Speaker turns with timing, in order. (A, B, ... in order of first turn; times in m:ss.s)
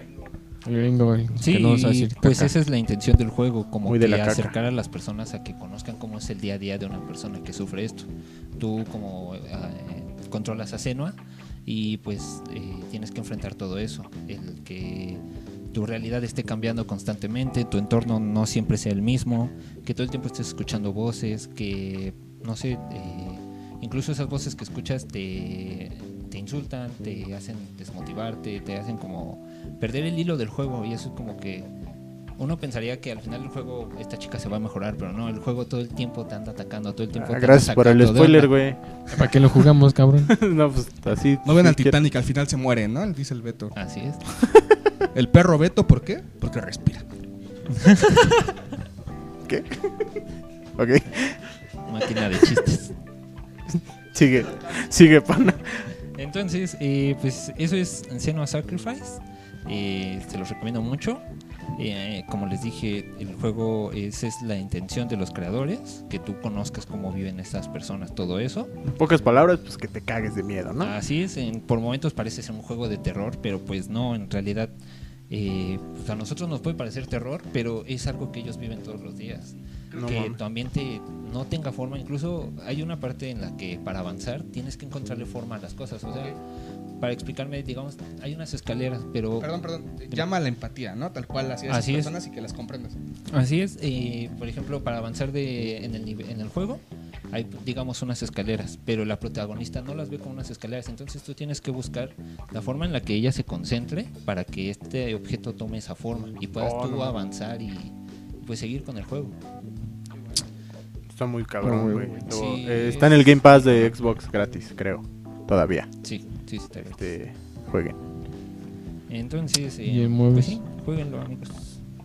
0:00.6-0:02.5 A
0:01.4-0:15.2 B
0:03.8-0:04.5 C
0:15.7-0:31.7 B
0:32.4-0:38.5 B
0:37.1-0:38.8 C
0:39.1-0:40.4 A
0:40.3-0:41.9 C
0:41.4-0:43.8 D
0:43.8-0:44.2 B
0:45.1-0:47.0 D
0:47.7-0:48.4 B
0:49.5-0:50.1 C
0:50.8-0:51.4 C
0:51.9-0:52.9 B
0:53.7-0:55.9 C
0:56.2-1:01.2 B
1:01.8-1:08.7 B
1:09.0-1:11.0 C
1:10.8-1:14.7 B
1:15.3-1:26.4 B
1:19.9-1:20.2 D
1:19.9-1:20.4 C
1:27.0-1:29.5 B
1:29.4-1:33.0 D
1:31.7-1:32.1 B
1:33.3-1:49.4 B
1:46.6-1:47.2 C
1:51.1-1:55.9 C
1:51.6-1:52.3 A
1:52.3-1:54.0 B
1:56.0-1:57.1 B
1:56.9-1:58.0 C
1:59.1-2:01.8 B
1:59.9-2:00.6 A